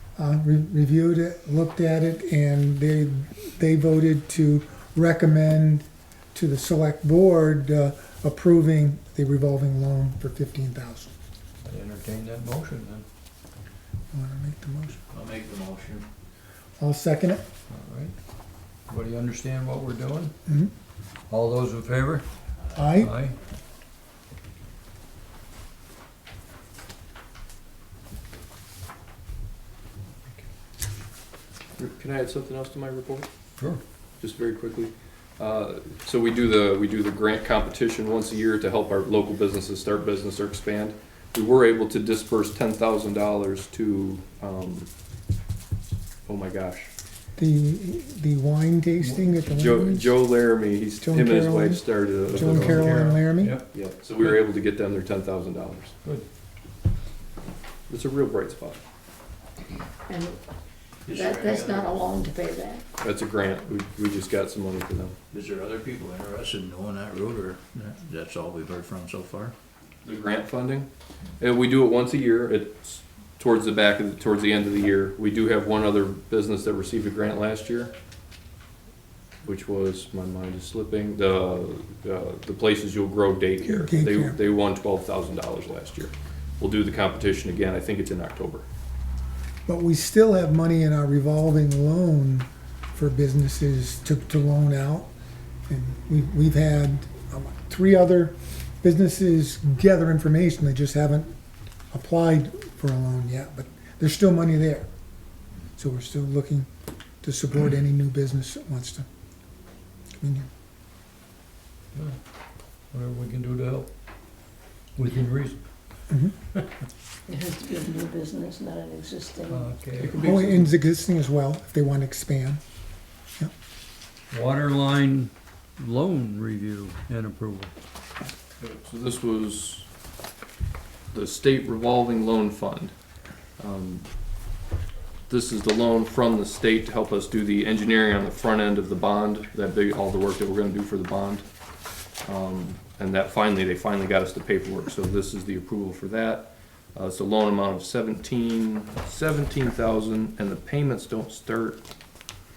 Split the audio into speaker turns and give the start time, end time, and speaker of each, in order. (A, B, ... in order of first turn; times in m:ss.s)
0:00.2-0:11.1 A
0:11.7-0:13.1 B
0:14.1-0:15.0 A
0:15.1-0:16.1 C
0:16.8-0:17.4 A
0:17.7-0:18.1 B
0:18.9-0:20.3 B
0:21.3-0:22.3 B
0:22.6-0:23.0 C
0:22.8-0:23.1 A
0:23.0-0:23.4 B
0:31.8-0:33.3 D
0:34.2-0:44.9 D
0:46.3-0:46.9 D
0:47.4-0:50.1 A
0:49.0-0:49.4 B
0:49.5-0:53.2 D
0:51.0-0:53.6 A
0:52.3-0:53.7 B
0:53.7-0:56.0 D
0:57.9-0:58.8 D
1:00.1-1:00.4 E
1:01.1-1:02.1 C
1:01.1-1:02.8 E
1:03.0-1:05.1 D
1:05.3-1:09.6 C
1:10.0-1:17.9 D
1:19.4-1:28.7 D
1:23.6-1:24.4 A
1:29.7-1:35.1 A
1:35.7-1:41.3 A
1:41.9-1:44.9 A
1:45.8-1:46.7 A
1:47.2-1:49.1 A
1:50.2-1:50.5 A
1:52.9-1:53.9 B
1:55.0-1:55.6 B
1:57.3-1:59.7 E
1:59.5-2:00.2 B
2:00.0-2:00.7 D
2:00.2-2:02.6 A
2:04.3-2:07.7 B
2:08.6-2:09.9 D
2:11.1-2:12.9 D
2:13.6-2:14.1 D
2:15.3-2:21.4 D
2:22.2-2:31.8 D